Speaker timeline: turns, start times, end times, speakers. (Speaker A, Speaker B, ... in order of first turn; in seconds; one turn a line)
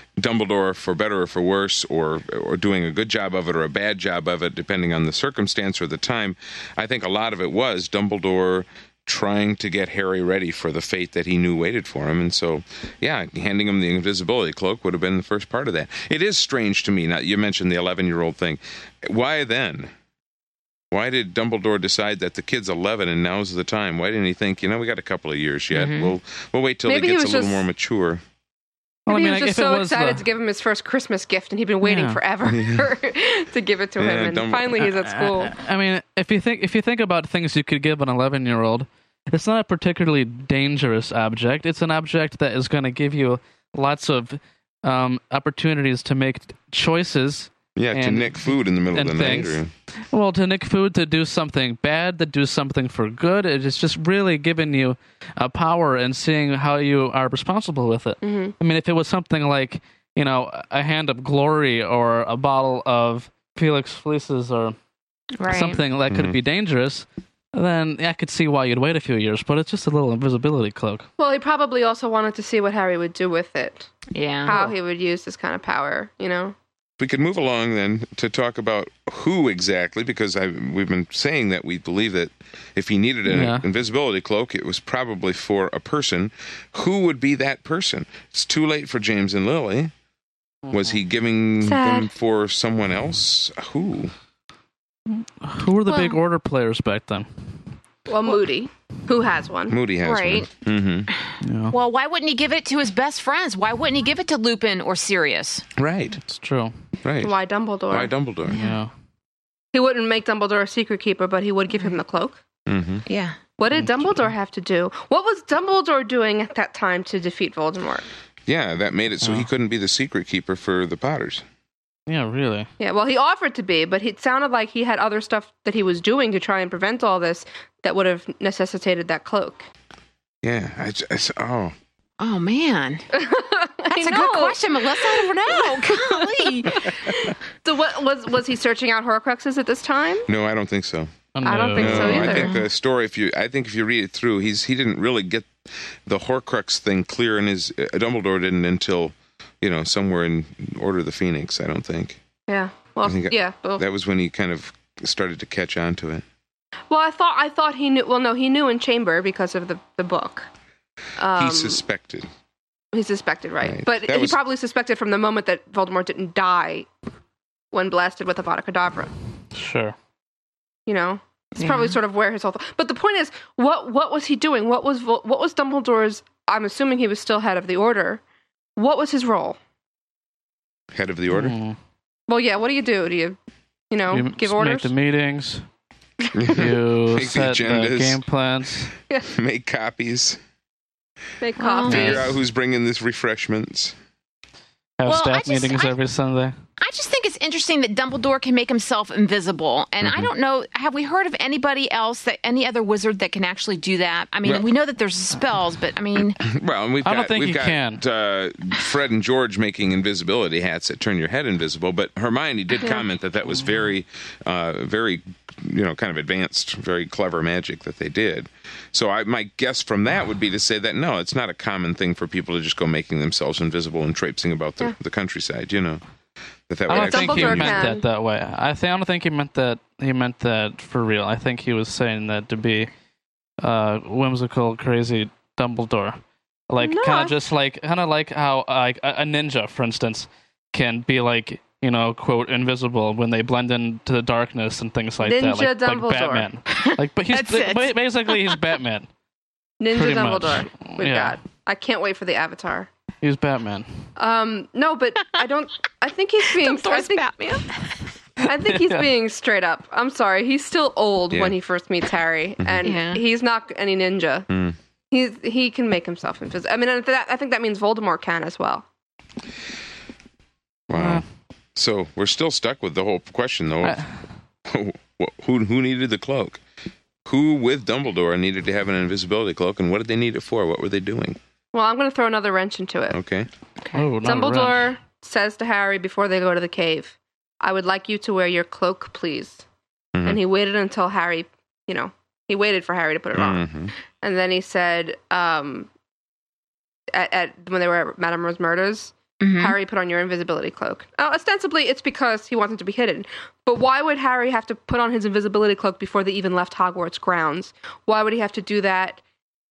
Speaker A: 0.2-19.9
Speaker A: 20.9-28.2
Speaker B: 25.7-26.1
Speaker C: 26.9-27.7
Speaker D: 29.1-30.2
Speaker C: 29.1-35.5
Speaker D: 31.8-32.2
Speaker A: 32.5-32.9
Speaker A: 34.0-34.8
Speaker D: 34.8-64.8
Speaker A: 47.8-49.7
Speaker C: 58.2-58.5
Speaker B: 65.4-65.8
Speaker D: 65.5-71.1
Speaker A: 66.1-66.4
Speaker C: 71.2-73.9
Speaker B: 74.1-74.6
Speaker C: 74.5-76.6
Speaker A: 77.0-89.9
Speaker D: 83.3-83.7
Speaker D: 90.7-91.0
Speaker A: 90.7-94.1
Speaker C: 91.6-92.1
Speaker D: 95.1-97.3
Speaker B: 95.9-96.2
Speaker C: 98.1-99.8
Speaker A: 99.7-101.1
Speaker B: 100.0-100.5
Speaker D: 101.4-101.8
Speaker B: 101.7-105.6
Speaker A: 105.8-106.2
Speaker D: 106.2-106.7
Speaker A: 107.0-107.4
Speaker C: 107.2-108.1
Speaker A: 107.9-108.6
Speaker B: 108.5-108.8
Speaker D: 108.5-108.9
Speaker C: 109.7-112.4
Speaker A: 112.7-113.0
Speaker B: 113.1-113.4
Speaker C: 113.6-118.0
Speaker D: 113.7-114.3
Speaker A: 118.5-121.4
Speaker D: 119.2-119.5
Speaker D: 122.1-122.7
Speaker C: 122.8-129.7
Speaker A: 130.4-131.7
Speaker B: 132.2-133.1
Speaker C: 133.1-140.3
Speaker B: 133.9-136.9
Speaker A: 140.3-141.1
Speaker D: 141.3-142.3
Speaker C: 141.4-142.6
Speaker A: 141.8-145.5
Speaker B: 142.2-142.7
Speaker A: 146.1-152.2
Speaker C: 152.5-153.8
Speaker A: 153.0-156.2
Speaker C: 156.9-160.5
Speaker C: 161.2-161.8
Speaker A: 161.3-162.3
Speaker C: 162.9-166.9
Speaker A: 163.6-164.4
Speaker C: 167.7-169.1
Speaker D: 169.5-169.9
Speaker C: 170.9-178.2
Speaker B: 171.6-172.0
Speaker C: 178.8-179.6
Speaker A: 180.9-181.6
Speaker D: 181.3-181.8
Speaker C: 182.3-183.4
Speaker C: 183.9-184.9
Speaker D: 184.1-185.6
Speaker A: 186.3-188.2
Speaker D: 186.5-188.9
Speaker A: 189.3-190.4
Speaker C: 191.4-192.4
Speaker B: 191.6-192.2
Speaker D: 191.9-192.3
Speaker A: 191.9-193.9
Speaker D: 195.0-196.6
Speaker B: 195.1-195.9
Speaker B: 196.8-206.4
Speaker A: 200.0-200.3
Speaker A: 204.4-204.7
Speaker A: 206.4-226.0
Speaker D: 207.0-208.0
Speaker A: 226.7-227.9
Speaker D: 226.9-232.9
Speaker C: 226.9-228.0
Speaker D: 233.6-236.2
Speaker D: 236.7-249.1
Speaker C: 236.8-237.4
Speaker C: 245.2-246.5
Speaker B: 246.7-248.6
Speaker C: 249.8-252.9
Speaker D: 249.9-251.4
Speaker D: 253.2-253.9
Speaker C: 254.2-257.3
Speaker B: 256.4-257.9
Speaker D: 258.4-259.1
Speaker C: 258.4-264.5
Speaker A: 262.6-262.9
Speaker B: 262.8-263.2
Speaker A: 264.5-264.8
Speaker C: 265.1-268.9
Speaker A: 270.9-274.0
Speaker D: 270.9-271.2
Speaker D: 273.8-274.2
Speaker A: 274.7-276.6
Speaker A: 277.2-281.4
Speaker C: 281.7-283.2
Speaker A: 283.1-283.5
Speaker D: 283.9-284.9
Speaker C: 284.2-289.6
Speaker A: 290.1-290.4
Speaker C: 290.3-295.9
Speaker A: 293.3-293.9
Speaker C: 297.1-309.2
Speaker B: 299.4-299.8